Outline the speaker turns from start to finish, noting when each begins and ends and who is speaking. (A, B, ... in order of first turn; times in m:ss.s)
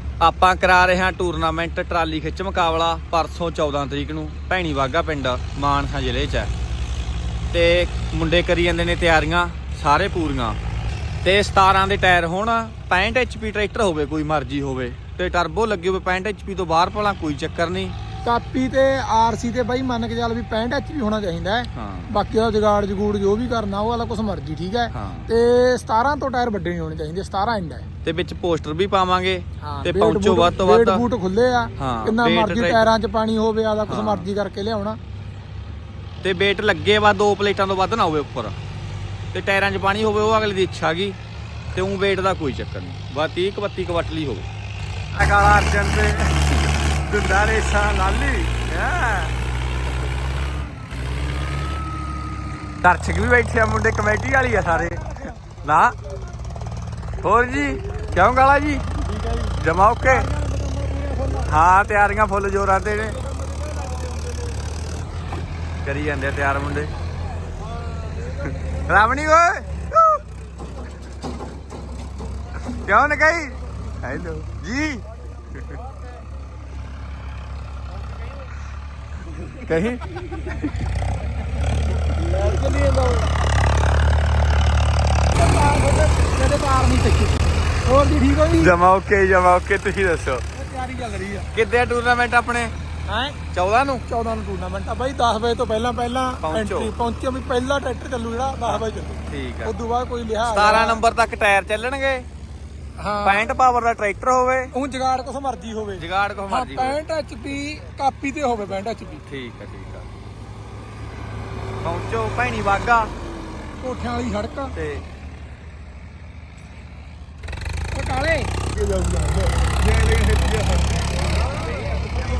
0:00.2-0:06.5 A
0:07.5-0:10.6 A
0:11.2-0:18.0 A
0:18.2-0:27.8 B
0:21.7-0:22.1 A
0:24.9-0:25.3 A
0:28.0-0:31.0 A
0:29.6-0:35.0 B
0:31.8-0:32.9 A
0:33.9-0:34.3 A
0:36.2-0:38.6 A
0:39.3-0:41.2 A
0:41.7-0:44.5 A
0:45.1-0:49.4 A
0:52.8-0:55.0 A
0:54.6-0:55.4 B
0:55.6-0:56.0 A
0:57.2-0:59.0 A
0:59.0-1:01.5 B
0:59.6-1:00.3 A
1:01.4-1:03.2 A
1:05.8-1:06.9 A
1:08.7-1:10.2 A
1:12.6-1:15.0 A
1:19.6-1:20.1 A
1:22.1-1:23.3 B
1:25.3-1:28.8 B
1:28.6-1:30.4 A
1:30.5-1:31.5 B
1:31.5-1:32.7 A
1:33.1-1:33.4 B
1:33.5-1:34.0 A
1:34.1-1:41.0 B
1:36.4-1:36.9 A
1:38.6-1:39.7 A
1:40.4-1:42.3 A
1:43.0-1:43.5 B
1:43.2-1:44.7 A
1:44.7-1:49.2 B
1:46.0-1:47.0 A
1:49.3-1:50.1 A
1:51.8-1:53.1 A
1:53.8-1:54.7 B
1:54.7-1:55.0 A
1:57.9-1:59.6 B